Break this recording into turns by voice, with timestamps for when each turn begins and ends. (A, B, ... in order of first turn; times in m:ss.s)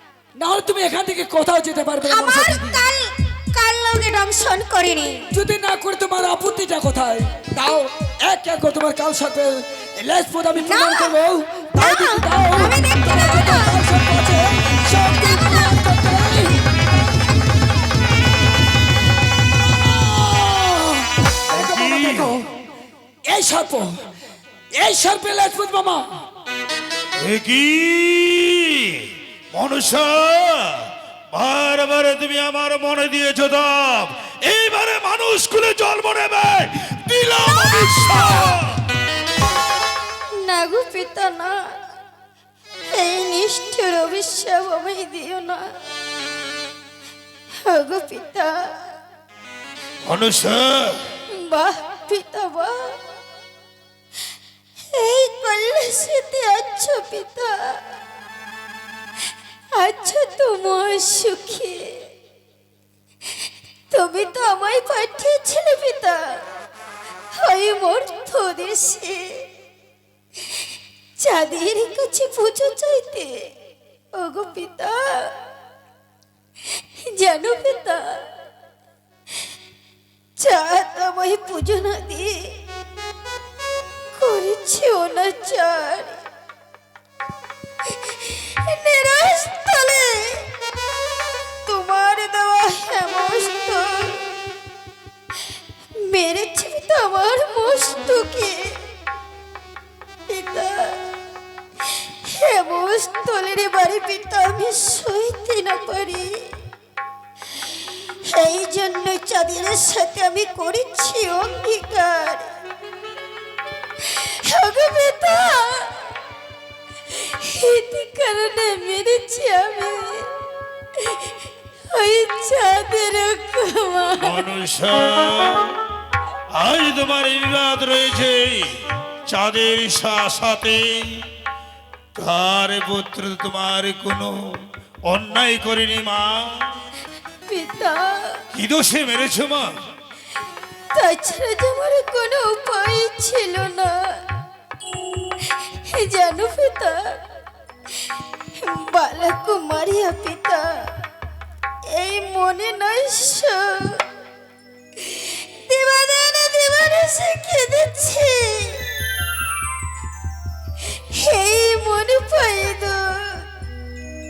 0:00.4-0:02.8 A
0:02.0-0:05.3 B
0:05.3-0:16.6 A
0:10.6-0:11.1 B
0:11.8-0:13.8 B
0:19.6-0:22.5 A
0:21.5-0:22.4 C
0:23.3-0:24.0 A
0:24.8-0:26.0 A
0:27.2-0:38.8 C
0:37.7-0:38.3 B
0:40.4-0:41.6 B
0:42.9-0:45.6 B
0:47.7-0:48.6 B
0:50.1-0:51.0 C
0:51.3-0:52.8 B
0:54.9-0:57.8 B
0:59.8-1:02.0 B
1:03.9-1:06.4 B
1:07.4-1:09.4 B
1:11.2-1:13.5 B
1:14.1-1:15.3 B
1:17.1-1:18.2 B
1:20.4-1:22.6 B
1:24.1-1:26.2 B
1:28.1-1:30.5 B
1:31.6-1:34.2 B
1:36.0-1:38.8 B
1:40.3-1:41.0 B
1:42.2-1:46.5 B
1:48.2-1:52.4 B
1:54.2-1:56.0 B
1:57.2-2:00.3 B
2:02.0-2:04.4 B
2:04.2-2:05.7 C
2:06.5-2:08.7 C
2:09.3-2:11.2 C
2:12.1-2:14.3 C
2:15.1-2:16.6 C
2:17.5-2:18.2 B
2:18.5-2:19.7 C
2:21.0-2:23.9 B
2:25.9-2:27.2 B
2:28.6-2:30.7 B
2:31.9-2:34.0 B
2:35.2-2:38.9 B
2:41.1-2:43.4 B